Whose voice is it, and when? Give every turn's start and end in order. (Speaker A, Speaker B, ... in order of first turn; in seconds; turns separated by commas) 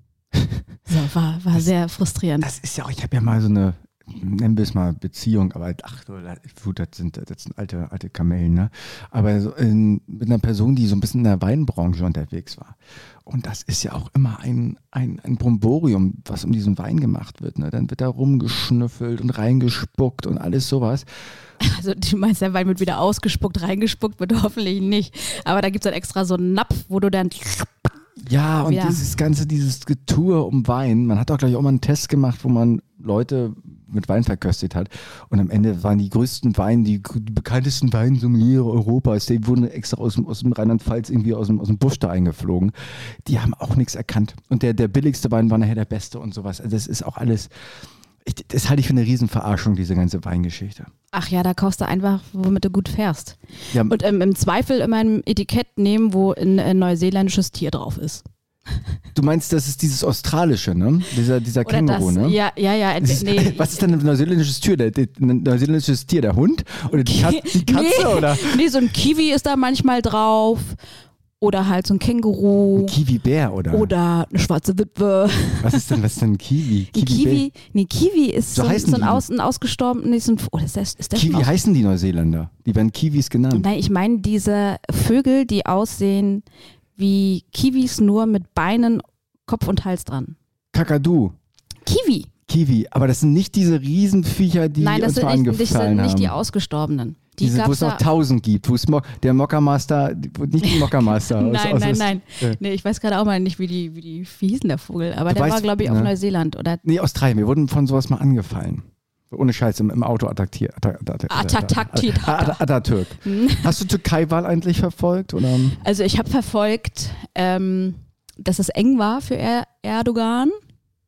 Speaker A: 0.9-2.5, Speaker B: 2.4-21.1, Speaker A: 21.6-27.9, Speaker B: 28.2-47.5, Speaker A: 28.7-29.0, Speaker B: 48.2-50.9, Speaker A: 51.1-58.2, Speaker B: 59.1-62.4, Speaker A: 61.6-63.8, Speaker B: 63.0-68.7, Speaker A: 66.9-70.8, Speaker A: 71.4-73.0, Speaker B: 72.8-73.9, Speaker A: 73.7-75.9, Speaker B: 75.6-77.5, Speaker A: 76.9-81.5, Speaker B: 78.5-79.2, Speaker B: 81.2-83.7, Speaker A: 83.5-86.4, Speaker A: 87.0-90.3, Speaker B: 90.7-91.3, Speaker A: 91.8-92.3, Speaker B: 92.5-96.3, Speaker A: 94.8-98.0, Speaker B: 97.4-102.6, Speaker A: 100.6-106.8, Speaker B: 105.3-106.1, Speaker B: 106.8-115.8, Speaker A: 111.3-112.6, Speaker A: 113.2-113.8, Speaker A: 115.8-120.6